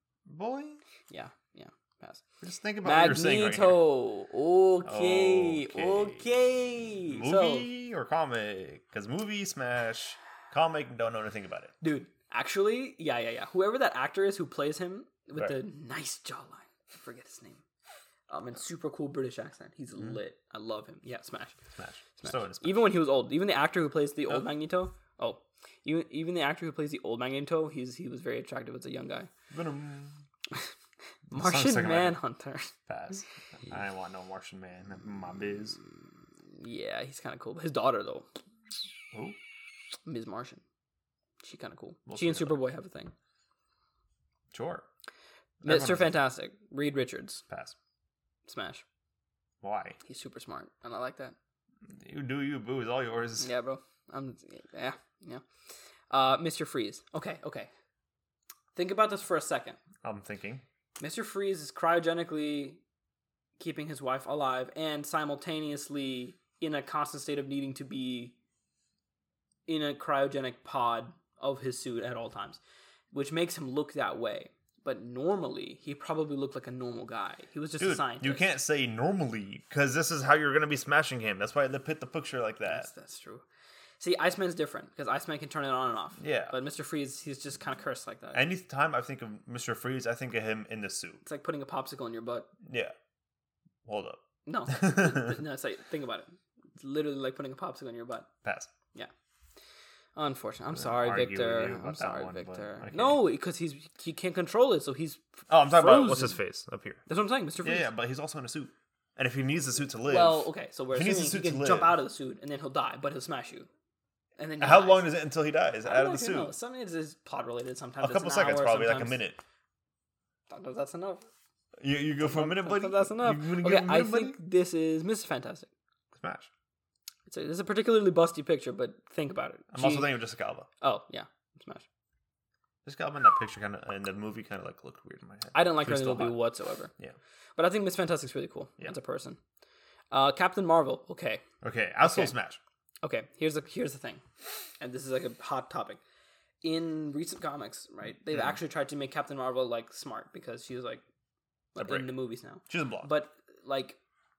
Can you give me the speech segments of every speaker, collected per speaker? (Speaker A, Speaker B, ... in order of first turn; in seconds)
Speaker A: 0.3-0.8, 2.4-3.8, 4.8-6.3, 7.1-11.7, 21.8-22.9, 29.5-30.2, 31.3-32.2, 32.9-35.8, 39.1-39.4, 42.1-42.6, 44.5-44.9, 45.6-46.1, 47.5-47.8, 49.6-50.0, 51.9-53.5, 60.0-60.6, 77.8-82.9, 86.2-86.6, 88.3-91.2, 92.6-92.9, 93.8-95.4, 98.4-98.7, 100.7-103.2, 105.5-107.0, 107.6-112.0, 114.6-116.5, 118.0-119.4, 121.8-124.4, 126.1-126.5, 129.7-130.7, 132.8-136.4, 141.6-142.6, 151.8-152.1, 152.7-153.1
Speaker B: 1.1-2.2, 2.8-7.7, 11.8-17.6, 18.3-21.6, 22.2-29.3, 31.3-32.7, 36.6-38.3, 40.1-40.6, 41.4-43.1, 45.6-47.4, 48.5-48.8, 50.0-51.4, 53.4-55.4, 56.1-57.7, 58.8-59.8, 61.0-62.8, 63.6-68.3, 69.7-72.6, 73.1-78.4, 82.7-83.5, 84.0-88.5, 91.2-92.5, 94.5-98.3, 100.2-106.4, 107.1-107.9, 110.1-113.7, 114.4-115.1, 115.8-119.2, 120.5-121.3, 122.2-125.7, 127.3-130.1, 130.8-131.9, 135.5-136.9, 137.6-139.4, 140.1-141.4, 142.0-142.3, 143.0-144.2, 144.8-146.0, 146.6-151.0, 151.8-154.0